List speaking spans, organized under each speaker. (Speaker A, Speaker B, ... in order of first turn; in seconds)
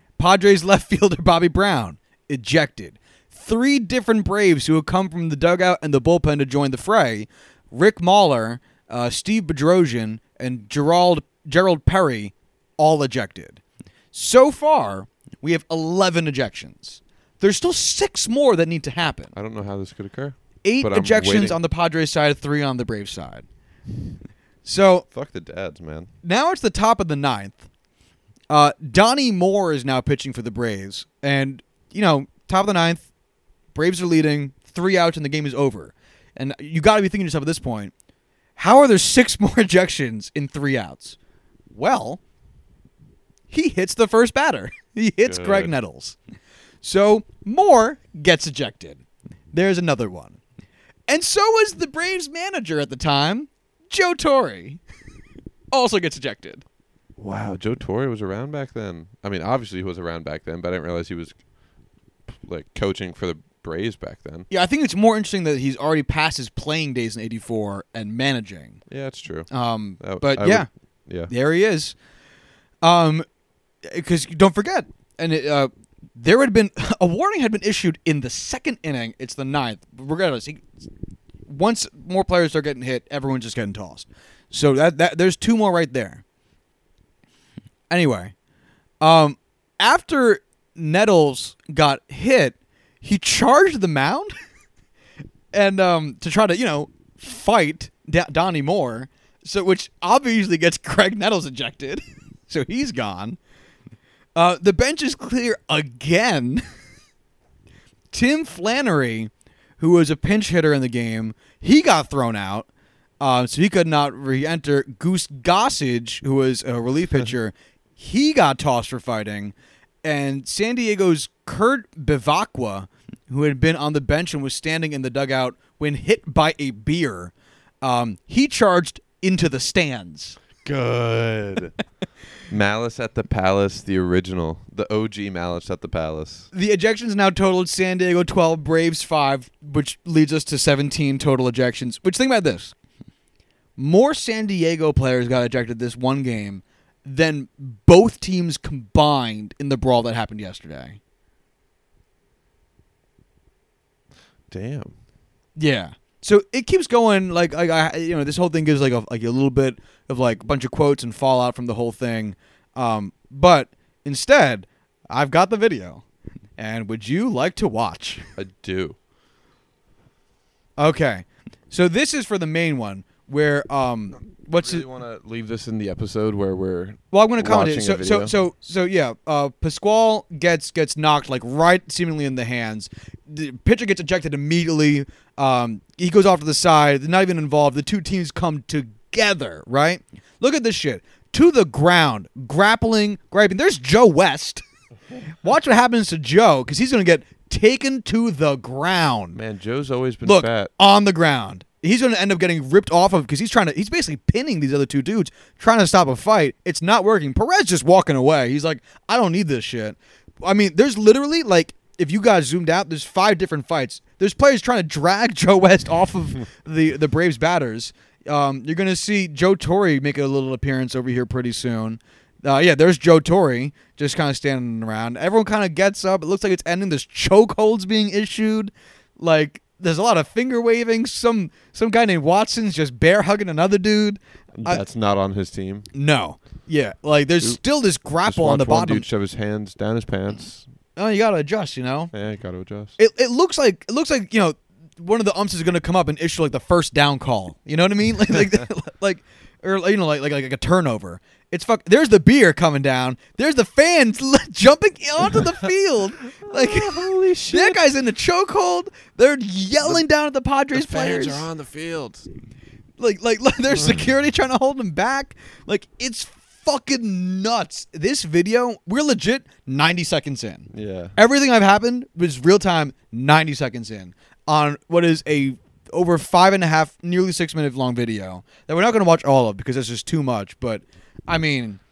Speaker A: 0.2-13.6, 14.1-19.3, 20.6-23.4, 24.6-25.1, 26.2-27.7, 28.5-33.1, 33.7-37.9, 38.6-41.2, 41.7-42.2, 43.5-46.2, 46.8-50.4, 51.1-54.8, 55.7-56.6, 64.5-68.8, 69.5-70.7, 71.2-72.0, 72.8-73.2, 73.8-80.8, 81.5-86.2, 87.9-88.3, 89.0-94.3, 95.5-103.4, 104.3-106.6, 108.1-112.7, 113.2-130.4, 136.5-142.7, 143.8-151.0, 155.6-166.0, 166.6-168.3, 170.8-174.8, 177.1-194.6, 195.3-199.4, 200.2-234.8, 235.9-239.1, 240.9-242.1, 243.0-261.5, 263.0-281.8
Speaker B: 19.3-21.6, 25.1-26.1, 45.2-45.7, 57.2-61.4, 62.3-64.5, 68.9-71.3, 130.6-131.7, 132.5-136.5, 154.5-154.9, 168.4-169.0, 174.4-178.3, 199.3-200.7, 234.6-235.9, 237.4-240.7, 242.1-242.9, 256.4-257.8, 260.7-262.3, 270.7-271.2